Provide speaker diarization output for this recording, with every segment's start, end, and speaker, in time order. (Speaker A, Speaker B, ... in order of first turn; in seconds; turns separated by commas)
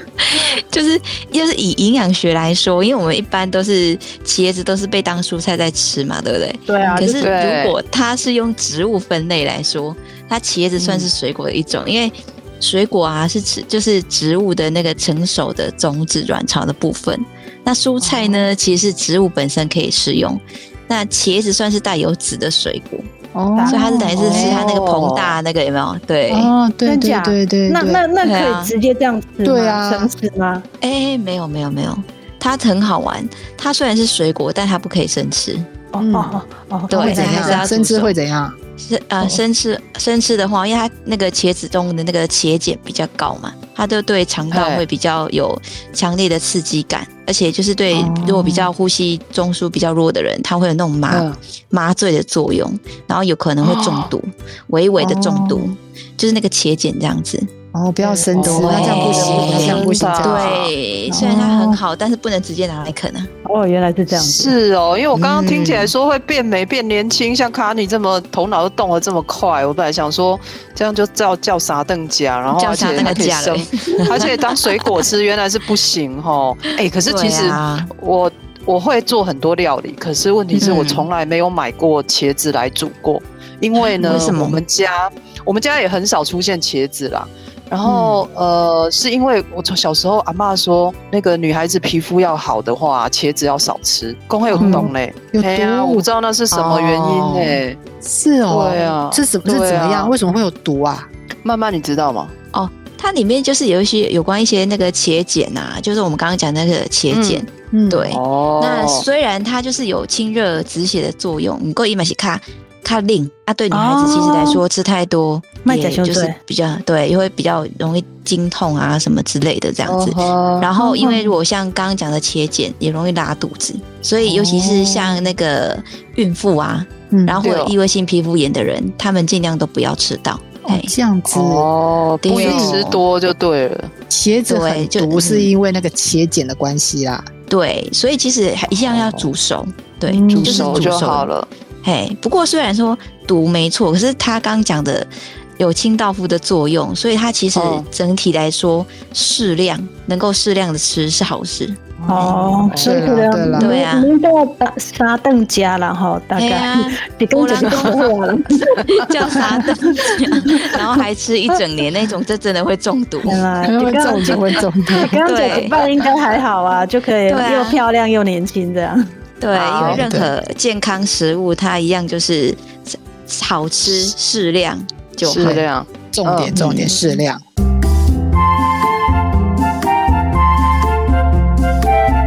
Speaker A: 0.2-23.1, Speaker B: 6.7-7.3, Speaker C: 7.2-7.8, Speaker D: 10.8-11.1, Speaker D: 18.0-18.5, Speaker D: 23.3-24.6, Speaker B: 23.5-23.9, Speaker A: 23.7-26.5, Speaker C: 24.2-25.4, Speaker D: 26.3-28.0, Speaker B: 26.9-30.6, Speaker A: 28.2-28.7, Speaker D: 29.4-30.1, Speaker A: 30.8-35.7, Speaker B: 35.9-37.7, Speaker D: 36.0-36.4, Speaker A: 36.9-38.1, Speaker D: 36.9-38.6, Speaker A: 38.8-57.5, Speaker C: 44.5-44.8, Speaker D: 47.9-48.7, Speaker C: 51.1-51.4, Speaker C: 53.6-54.1, Speaker D: 55.0-55.7, Speaker D: 57.7-61.5, Speaker C: 58.0-60.7, Speaker A: 58.4-63.3, Speaker B: 61.1-61.4, Speaker B: 63.5-64.5, Speaker C: 64.1-97.8, Speaker A: 65.1-65.9, Speaker A: 72.5-74.4, Speaker A: 77.0-77.9, Speaker A: 80.5-81.1, Speaker A: 83.8-84.6, Speaker D: 87.8-88.2, Speaker D: 94.5-101.1, Speaker B: 94.6-94.9, Speaker C: 98.5-100.1, Speaker C: 101.4-102.3, Speaker A: 102.5-130.9, Speaker C: 107.1-107.4, Speaker D: 107.7-108.1, Speaker C: 108.1-109.0, Speaker B: 113.7-114.6, Speaker B: 115.6-116.4, Speaker C: 119.8-120.7, Speaker D: 120.8-121.2, Speaker B: 120.8-121.2, Speaker D: 124.2-125.2, Speaker D: 127.1-127.4, Speaker C: 127.4-127.7, Speaker D: 130.6-131.7, Speaker C: 131.3-133.9, Speaker A: 132.2-133.0, Speaker D: 132.3-132.8, Speaker D: 134.1-137.3, Speaker A: 134.5-135.5, Speaker A: 137.5-141.3, Speaker C: 138.7-139.3, Speaker D: 140.1-140.9, Speaker C: 140.3-141.5, Speaker A: 141.8-151.8, Speaker C: 147.5-147.9, Speaker D: 152.0-153.8, Speaker B: 152.1-160.8, Speaker C: 152.7-153.1, Speaker A: 153.6-154.1, Speaker A: 156.3-158.1, Speaker A: 158.7-163.3, Speaker B: 163.2-169.1, Speaker D: 163.6-165.1, Speaker A: 165.2-165.8, Speaker A: 167.3-167.8, Speaker A: 169.4-175.6, Speaker C: 169.5-170.1, Speaker D: 169.8-170.3, Speaker C: 175.2-176.5, Speaker D: 175.4-177.4, Speaker A: 176.5-177.1